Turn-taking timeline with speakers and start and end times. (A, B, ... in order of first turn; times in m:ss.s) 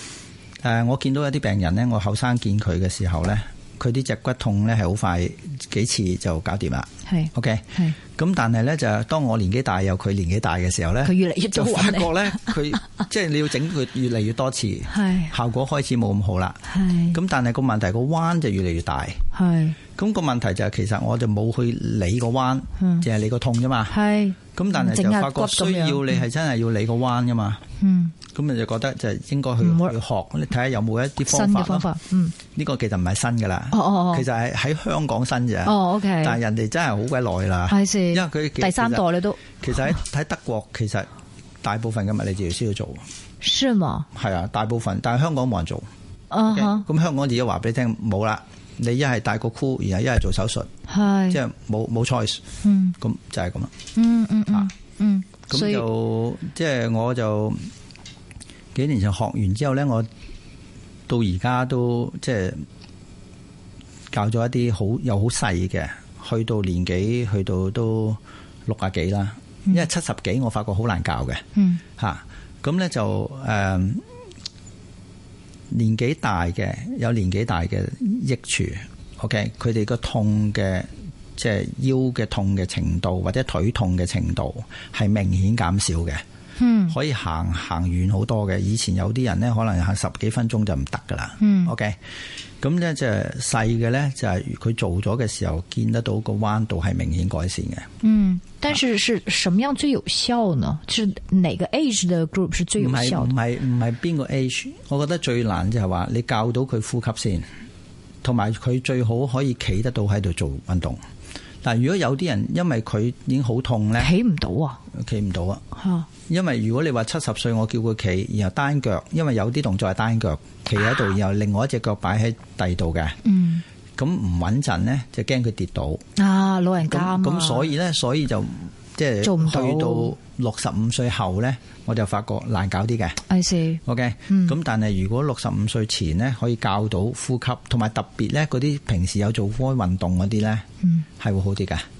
0:00.6-0:16.6 A
0:07.1-0:08.0 B
0:11.0-0:12.8 B
0:14.9-0:15.3 B
0:16.7-0:17.2 B
0:17.1-0:19.2 A
0:19.3-0:19.8 B
0:20.0-0:24.0 A
0:22.8-0:23.1 B
0:23.9-0:26.2 B
0:24.6-0:27.6 A
0:27.8-0:28.1 B
0:28.3-0:31.9 A
0:29.6-0:29.9 B
0:31.2-0:32.4 B
0:32.5-0:39.0 A
0:33.7-0:34.2 B
0:35.6-0:36.4 B
0:37.7-0:39.6 B
0:39.6-0:41.1 A
0:41.6-0:43.0 A
0:43.4-0:44.1 B
0:44.1-0:45.9 A
0:46.3-0:46.9 B
0:46.5-0:50.7 A
0:50.9-0:51.4 B
0:51.3-0:52.4 A
0:52.6-0:53.0 B
0:53.0-0:53.7 A
0:54.0-0:55.8 B
0:55.5-0:57.7 A
0:58.7-1:00.1 A
1:01.1-1:02.7 A
1:04.1-1:11.4 A
1:11.6-1:11.8 B
1:12.0-1:14.1 A
1:15.7-1:26.2 A
1:26.6-1:27.0 B
1:26.9-1:32.0 A
1:31.4-1:31.7 B
1:32.6-1:37.9 A
1:38.0-1:43.3 B
1:42.8-1:47.5 A
1:48.2-1:51.0 A
1:51.6-1:54.1 A
1:54.0-1:54.8 B
1:54.9-1:55.6 A
1:55.8-1:56.1 B
1:56.3-2:03.2 A
2:03.2-2:03.6 B
2:04.0-2:06.0 A
2:06.2-2:07.7 B
2:06.8-2:13.2 A
2:09.2-2:10.1 B
2:13.3-2:14.6 B
2:13.8-2:20.7 A
2:21.2-2:21.8 A